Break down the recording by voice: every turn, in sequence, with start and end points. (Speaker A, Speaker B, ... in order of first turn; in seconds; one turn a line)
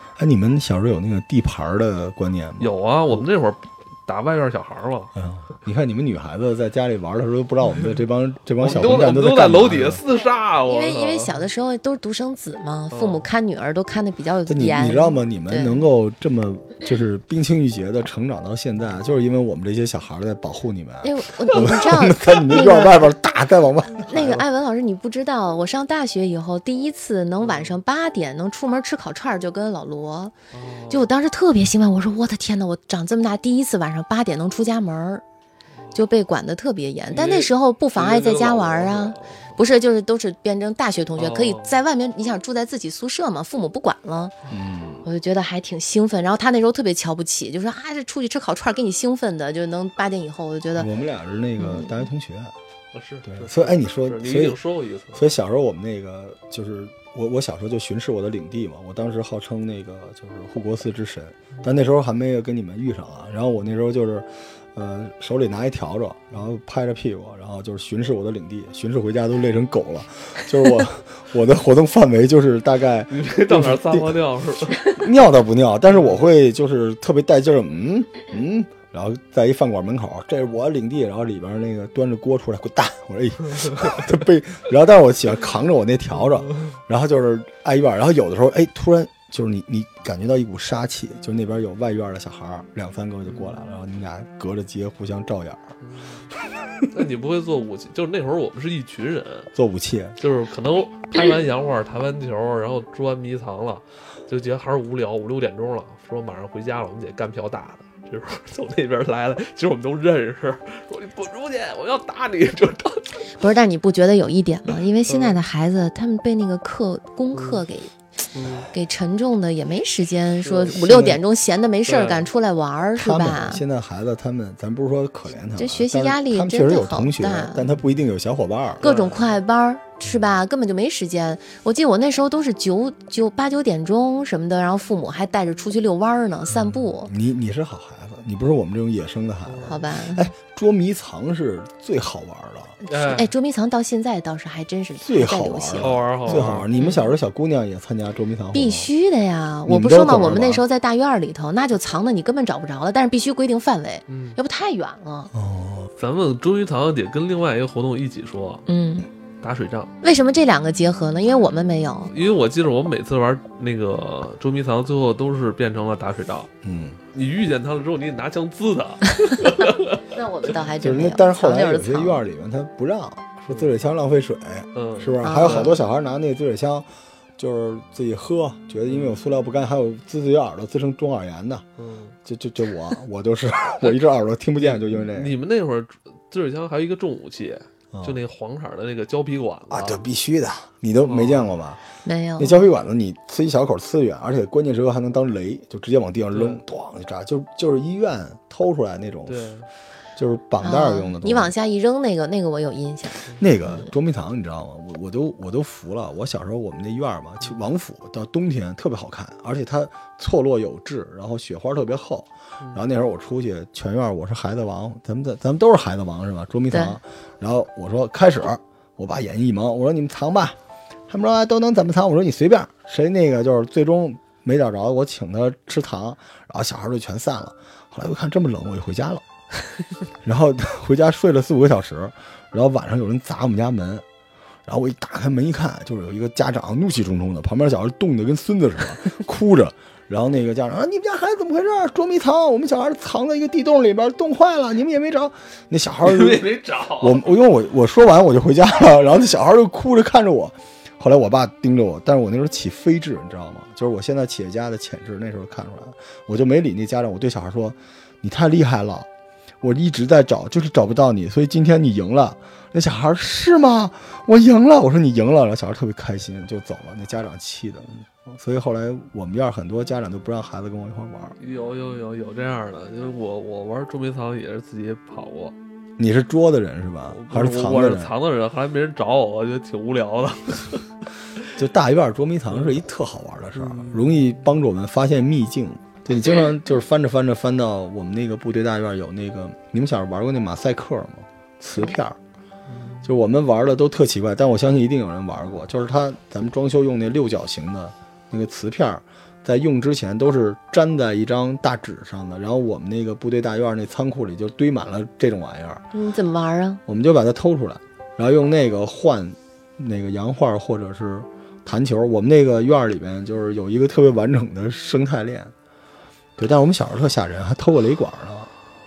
Speaker A: 0.2-3.2
Speaker B: 2.6-5.1
Speaker A: 5.1-10.0
Speaker B: 8.6-11.5
Speaker C: 10.6-15.8
Speaker B: 12.9-13.3
Speaker A: 14.5-24.4
Speaker C: 21.0-23.1
Speaker C: 24.0-30.3
Speaker B: 27.4-27.8
Speaker B: 30.5-31.1
Speaker C: 30.9-35.2
Speaker C: 35.9-44.3
Speaker B: 37.1-39.6
Speaker B: 41.2-41.8
Speaker A: 44.5-45.0
Speaker C: 45.0-50.9
Speaker A: 50.7-52.5
Speaker C: 51.6-52.0
Speaker B: 52.9-55.2
Speaker A: 53.3-54.6
Speaker A: 55.1-74.2
Speaker B: 73.1-74.9
Speaker A: 74.8-95.7
Speaker B: 75.9-76.2
Speaker B: 93.3-93.6
Speaker B: 95.8-96.3
Speaker B: 96.9-99.5
Speaker A: 99.5-100.2
Speaker B: 100.2-113.2
Speaker C: 113.4-117.9
Speaker B: 115.1-115.4
Speaker B: 117.3-117.6
Speaker B: 118.3-118.7
Speaker C: 118.7-123.6
Speaker B: 120.4-120.8
Speaker A: 120.7-121.2
Speaker B: 121.8-122.3
Speaker A: 123.0-128.8
Speaker C: 125.6-127.6
Speaker B: 128.8-129.3
Speaker C: 128.8-137.1
Speaker A: 137.0-142.8
Speaker B: 139.4-139.8
Speaker C: 139.7-140.3
Speaker C: 142.8-147.1
Speaker B: 142.8-143.3
Speaker A: 145.0-148.9
Speaker B: 145.7-146.9
Speaker C: 148.5-155.3
Speaker A: 149.7-150.6
Speaker B: 154.1-154.4
Speaker A: 155.3-155.9
Speaker B: 156.0-158.7
Speaker C: 158.7-159.1
Speaker B: 159.4-159.9
Speaker C: 160.0-162.1
Speaker B: 162.1-166.5
Speaker A: 166.6-167.0
Speaker B: 167.1-170.0
Speaker C: 170.1-172.2
Speaker A: 170.8-176.9
Speaker B: 173.5-173.7
Speaker B: 174.7-175.8
Speaker C: 175.2-175.8
Speaker A: 177.4-181.6
Speaker B: 178.9-179.1
Speaker B: 181.8-182.2
Speaker A: 182.2-185.3
Speaker B: 184.6-190.0
Speaker A: 187.9-188.2
Speaker A: 189.7-191.8
Speaker B: 191.0-191.6
Speaker C: 192.0-192.6
Speaker A: 192.4-199.5
Speaker B: 196.3-196.6
Speaker B: 199.2-199.7
Speaker A: 200.2-201.5
Speaker C: 200.6-203.9
Speaker A: 203.4-220.6
Speaker C: 216.7-217.0
Speaker A: 221.1-229.2
Speaker A: 230.2-234.0
Speaker A: 234.7-259.1
Speaker B: 246.0-247.2
Speaker A: 259.6-271.4
Speaker B: 271.4-275.5
Speaker A: 276.0-278.1
Speaker B: 277.1-280.9
Speaker A: 281.6-292.2
Speaker B: 283.5-284.2
Speaker B: 292.7-293.1
Speaker A: 293.0-305.8
Speaker C: 305.9-306.8
Speaker A: 306.9-315.5
Speaker A: 316.4-318.5